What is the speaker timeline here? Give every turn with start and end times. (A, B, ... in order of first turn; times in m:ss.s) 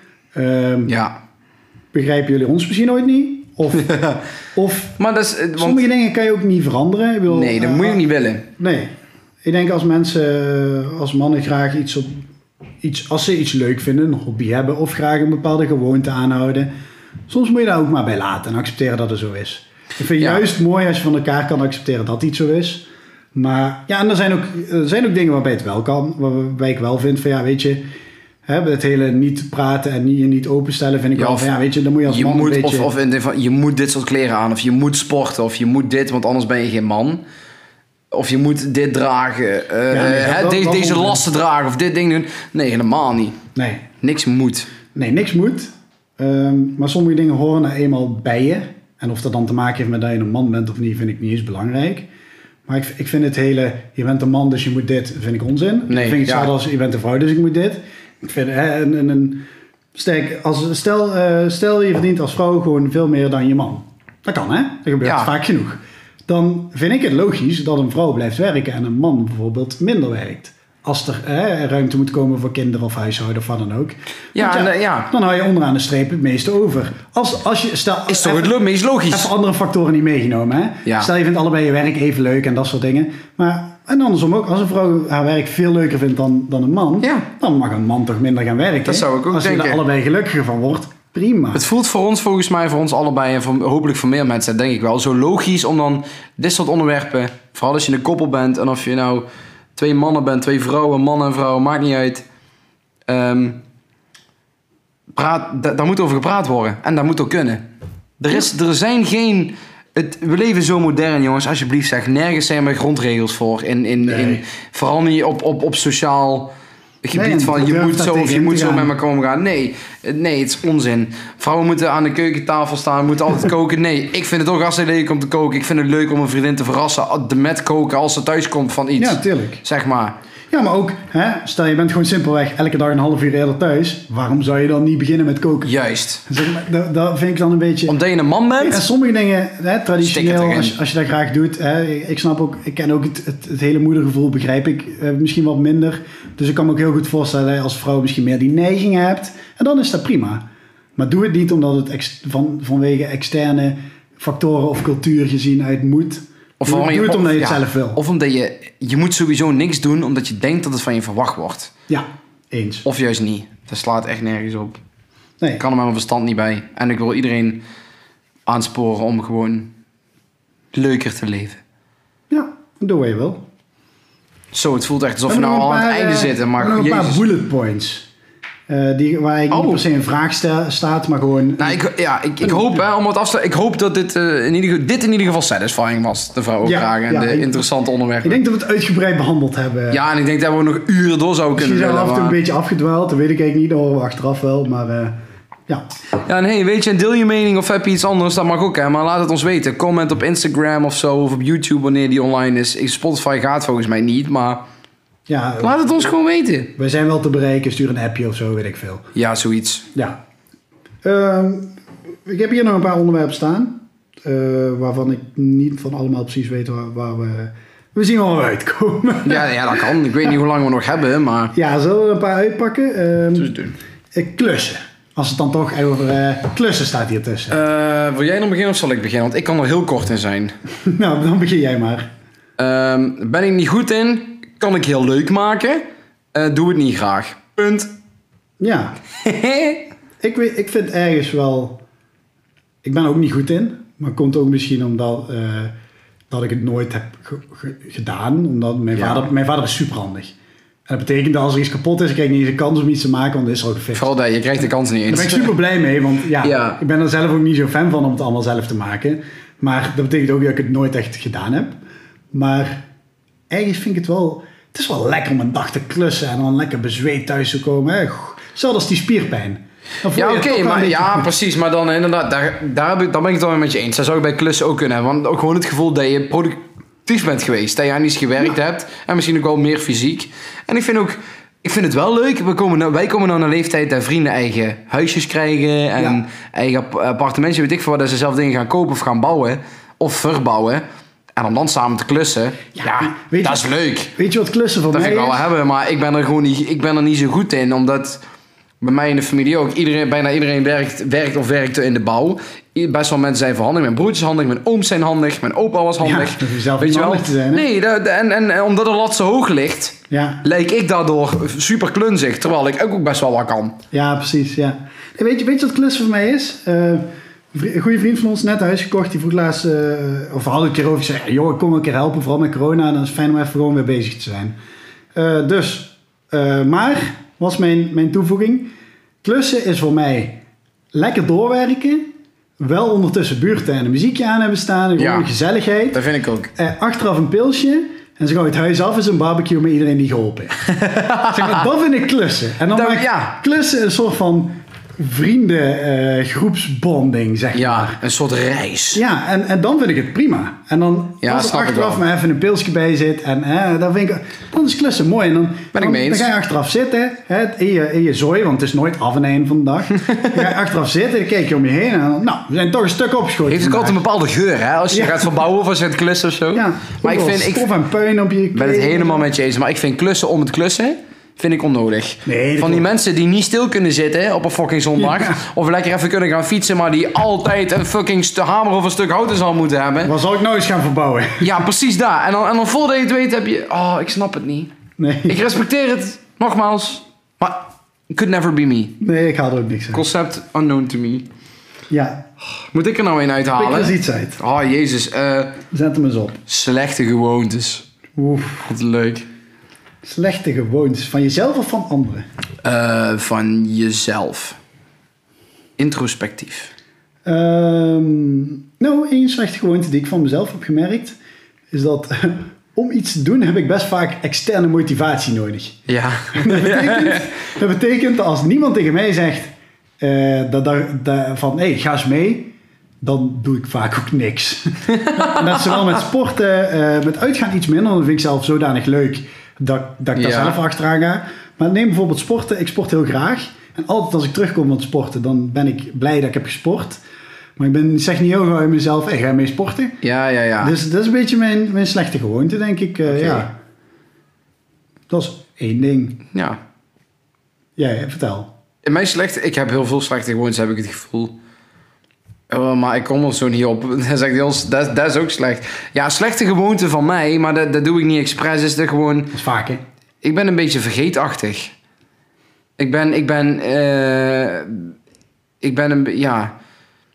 0:00.4-0:00.9 A
0:00.9-0:01.2 B
0:01.9-0:04.0 A
0:03.8-0:04.2 B
0:04.6-0:05.0 A
0:05.0-0:05.8 B
0:05.6-0:08.0 A
0:07.3-0:08.4 B
0:08.6-0:08.9 A
0:09.4-0:12.2 A
0:12.8-0:16.7 A
0:17.3-0:27.8 A
0:20.2-0:20.4 B
0:28.5-0:32.9 A
0:31.2-0:31.5 B
0:32.1-0:37.2 B
0:38.1-0:43.4 B
0:39.9-0:41.2 A
0:43.6-0:43.9 A
0:44.0-0:44.7 B
0:44.9-0:52.1 A
0:52.7-1:18.6 A
0:55.9-0:56.5 B
1:05.0-1:05.3 B
1:14.4-1:15.1 B
1:18.1-1:19.3 B
1:19.1-1:31.6 A
1:27.0-1:27.3 B
1:28.9-1:29.8 B
1:31.5-1:42.2 B
1:43.1-1:43.6 B
1:45.1-1:47.6 B
1:48.2-1:56.5 B
1:54.0-1:54.4 A
1:57.0-2:10.2 B
1:57.1-1:58.9 A
2:09.0-2:09.6 A
2:10.5-2:15.7 A
2:15.6-2:16.2 B
2:16.3-2:18.0 A
2:17.9-2:18.8 B
2:18.6-2:30.4 A
2:20.0-2:20.8 B
2:31.0-2:38.0 A
2:36.6-2:41.7 B
2:41.9-2:42.8 A
2:42.8-2:44.8 B
2:45.6-2:47.6 B
2:48.5-2:49.7 B
2:50.7-2:51.6 B
2:52.3-2:53.4 A
2:54.5-2:57.2 B
2:55.3-2:58.1 A
2:58.7-3:01.8 A
2:59.5-2:59.8 B
3:01.6-3:08.4 B
3:02.4-3:02.8 A
3:06.6-3:07.6 A
3:08.2-3:10.0 A
3:09.9-3:12.4 B
3:11.6-3:15.2 A
3:16.2-3:24.6 B
3:25.3-3:25.9 A
3:25.6-3:26.7 B
3:26.8-3:29.1 A
3:29.2-3:29.8 B
3:31.0-3:31.7 A
3:32.3-3:39.9 A
3:39.2-3:41.5 B
3:41.5-3:43.6 A
3:43.4-3:43.8 B
3:44.1-3:47.6 A
3:47.5-3:50.5 B
3:50.9-3:52.1 A
3:52.6-3:55.8 B
3:56.3-3:57.9 B
3:58.6-3:59.0 A
3:59.2-3:59.8 B
4:00.2-4:01.8 A
4:02.8-4:05.7 A
4:06.3-4:10.3 A
4:09.0-4:09.3 B
4:10.9-4:14.1 A
4:14.0-4:15.6 B
4:15.1-4:21.8 A
4:16.4-4:16.8 B
4:22.3-4:22.8 A
4:23.5-4:31.3 A
4:30.2-4:50.8 B
4:51.4-4:54.1 B
4:52.8-4:55.4 A
4:54.9-4:58.2 B
4:58.8-5:13.8 B
5:06.0-5:07.7 A
5:10.1-5:10.4 A
5:13.9-5:24.6 A
5:25.2-5:28.7 A
5:29.2-5:30.4 A
5:30.9-5:32.1 A
5:32.6-5:36.0 A
5:35.0-5:35.3 B
5:35.9-5:36.5 B
5:36.6-5:48.0 A
5:40.6-5:41.7 B
5:42.7-5:43.4 B
5:47.5-5:49.0 B
5:48.9-6:04.0 A
5:51.2-5:52.0 B
5:55.7-5:56.3 B
6:00.0-6:00.5 B
6:03.5-6:07.7 B
6:04.9-6:05.3 A
6:06.5-6:09.2 A
6:08.5-6:20.1 B
6:12.3-6:12.9 A
6:15.0-6:15.4 A
6:20.0-6:21.6 A
6:21.4-6:24.7 B
6:25.0-6:25.4 A
6:25.3-6:29.0 B
6:29.0-6:30.0 A
6:29.9-6:31.3 B
6:31.9-6:32.3 A
6:32.6-6:35.6 B
6:33.5-6:34.4 A
6:35.7-6:36.4 A
6:36.5-6:37.9 B
6:38.2-6:38.7 A
6:38.6-6:39.3 B
6:40.0-6:42.2 A
6:42.6-6:44.6 B
6:45.8-6:46.7 B
6:47.3-6:51.2 A
6:51.7-7:17.0 A
6:55.9-6:57.2 B
7:04.9-7:05.9 B
7:10.2-7:10.6 B
7:17.6-7:20.0 A
7:20.0-7:20.8 B
7:20.6-7:23.5 A
7:23.1-7:23.5 B
7:25.1-7:26.2 A
7:26.3-7:26.6 B
7:27.8-7:28.5 A
7:28.8-7:31.3 B
7:32.5-7:39.4 B
7:39.3-7:39.8 A
7:40.2-7:41.7 B
7:42.8-7:44.9 B
7:45.6-7:46.5 B